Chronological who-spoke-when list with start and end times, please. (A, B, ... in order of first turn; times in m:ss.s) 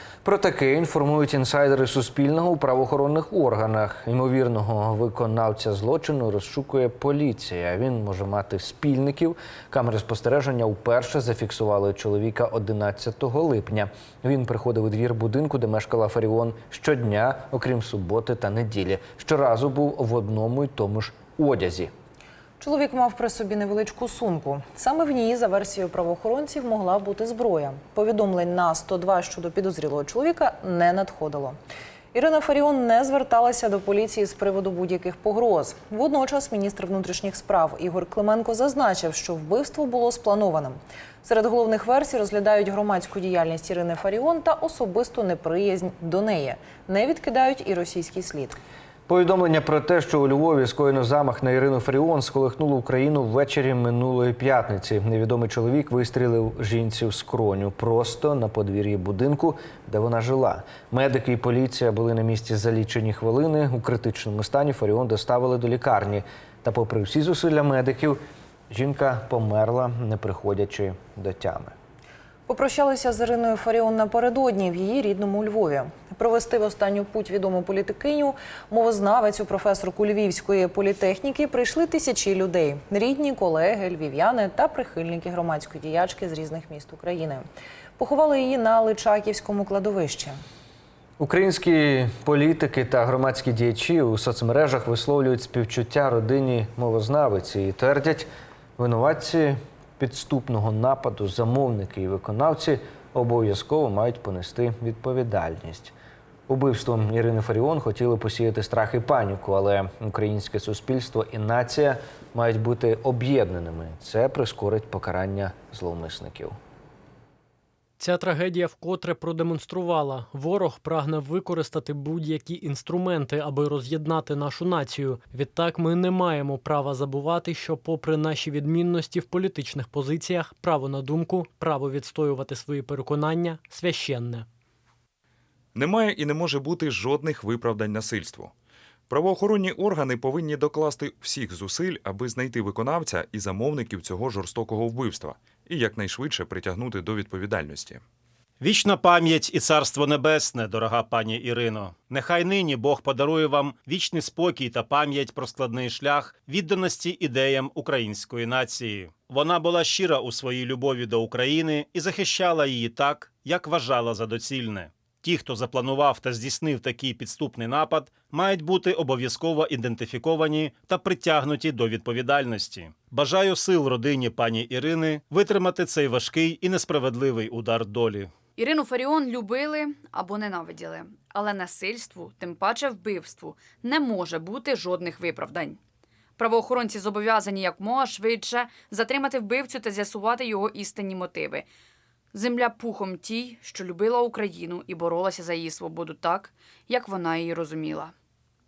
0:00.2-0:21.9 A
0:22.6-0:31.6 B
0:32.1-0:48.6 B
0:49.1-1:08.2 A
1:08.7-1:11.7 A
1:12.5-1:27.4 B
1:28.0-1:30.4 B
1:31.2-1:38.3 A
1:38.8-1:45.9 A
1:46.5-1:56.6 A
1:58.0-2:14.5 C
2:15.8-2:18.5 D
2:19.1-2:28.0 D
2:28.6-2:58.3 E
2:58.6-3:05.8 F
3:06.4-3:11.7 F
3:12.3-3:18.1 F